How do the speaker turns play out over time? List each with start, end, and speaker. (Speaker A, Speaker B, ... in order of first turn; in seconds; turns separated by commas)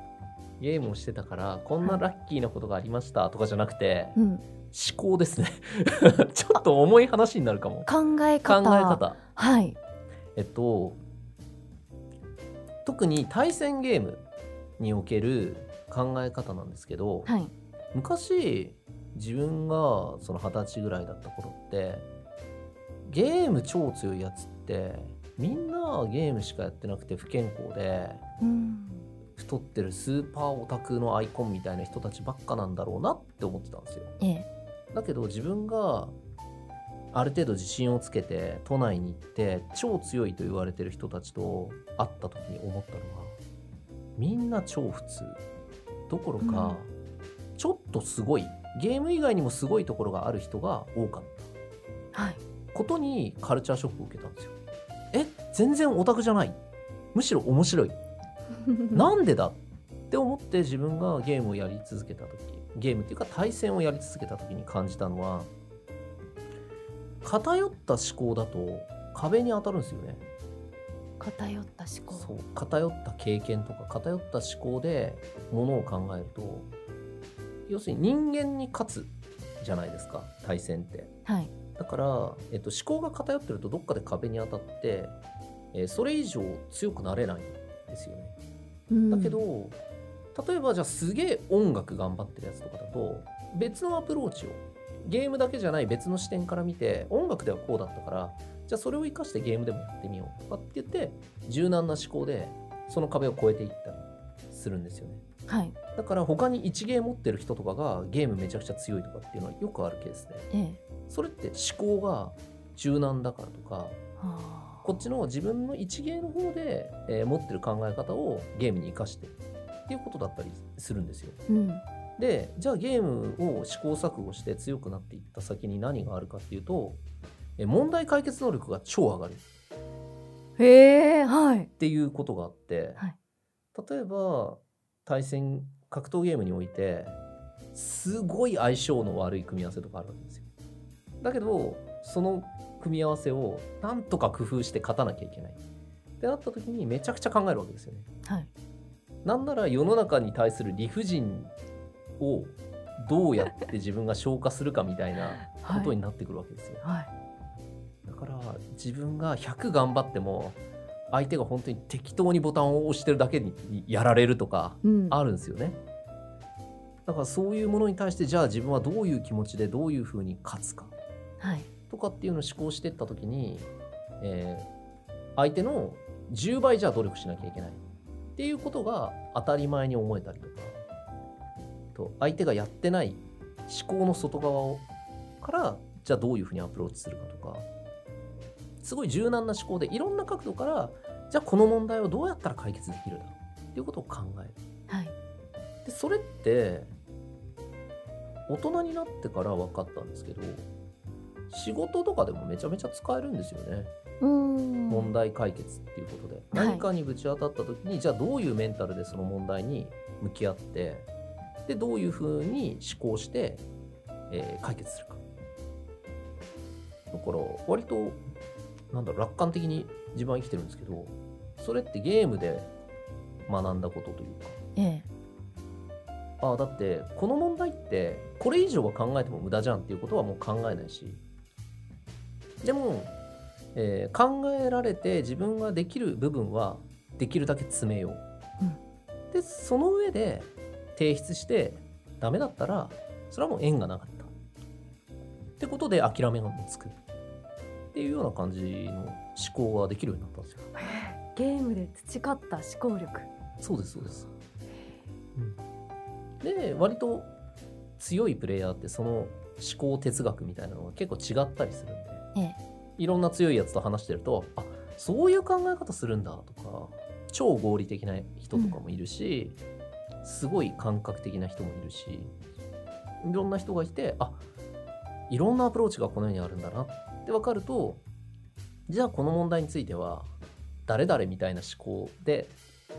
Speaker A: 0.6-4.2, Speaker B: 4.2-4.4, Speaker A: 4.7-7.9, Speaker B: 7.8-9.8, Speaker A: 8.4-9.2, Speaker A: 10.3-11.0, Speaker A: 12.8-14.2, Speaker A: 14.8-17.3, Speaker B: 17.2-17.5, Speaker A: 17.9-22.1, Speaker A: 23.0-28.2, Speaker B: 28.4-29.1, Speaker A: 29.4-34.1, Speaker B: 34.2-34.5, Speaker A: 34.9-36.1, Speaker A: 37.1-43.4, Speaker A: 44.2-45.4, Speaker A: 46.1-46.9, Speaker B: 46.4-46.8, Speaker A: 47.6-51.5, Speaker B: 52.1-52.4, Speaker A: 52.7-54.5, Speaker A: 55.1-56.6, Speaker A: 57.1-58.0, Speaker A: 58.9-65.5, Speaker A: 67.2-70.2, Speaker B: 71.2-72.3, Speaker A: 72.1-76.7, Speaker A: 77.7-81.1, Speaker B: 81.2-81.5, Speaker A: 81.8-85.2, Speaker A: 85.7-88.3, Speaker B: 88.9-89.4, Speaker A: 89.1-89.8, Speaker A: 90.3-105.2, Speaker B: 105.5-105.7, Speaker A: 105.9-110.5, Speaker B: 110.5-110.8, Speaker A: 111.1-114.0, Speaker B: 114.2-114.8, Speaker A: 114.8-119.3, Speaker A: 119.9-121.4, Speaker B: 121.5-121.8, Speaker A: 122.2-127.0, Speaker A: 127.6-129.4, Speaker B: 130.6-131.7, Speaker A: 131.8-133.0, Speaker A: 133.7-137.2, Speaker A: 137.7-140.4, Speaker A: 141.2-145.6, Speaker A: 146.2-148.1, Speaker A: 149.2-151.5, Speaker A: 152.2-156.8, Speaker B: 155.4-155.9, Speaker B: 156.8-157.1, Speaker A: 158.0-160.6, Speaker A: 161.1-165.8, Speaker B: 164.8-165.2, Speaker A: 167.1-170.9, Speaker B: 171.4-171.7, Speaker A: 171.9-173.7, Speaker A: 174.2-174.7, Speaker A: 175.3-177.8, Speaker A: 178.3-180.8, Speaker A: 181.9-184.8, Speaker A: 185.4-187.7, Speaker A: 188.8-194.6, Speaker B: 194.9-195.1, Speaker A: 195.8-196.9, Speaker A: 198.5-200.7, Speaker A: 201.5-203.9, Speaker B: 204.2-205.1, Speaker A: 204.9-211.1, Speaker B: 206.5-206.9, Speaker A: 211.7-213.6, Speaker A: 214.3-215.2, Speaker A: 217.1-218.2, Speaker A: 218.9-222.7, Speaker A: 223.5-224.6, Speaker B: 224.8-225.1, Speaker A: 226.4-231.2, Speaker A: 232.6-233.1, Speaker A: 233.7-238.2, Speaker A: 239.3-244.3, Speaker A: 245.6-247.0, Speaker A: 247.9-250.6, Speaker B: 250.7-253.3, Speaker A: 253.6-254.3, Speaker A: 256.4-257.3, Speaker A: 258.0-262.3, Speaker A: 263.0-269.6, Speaker A: 270.2-272.3, Speaker A: 273.2-274.4, Speaker A: 275.3-278.0, Speaker A: 278.9-280.3, Speaker A: 280.9-282.5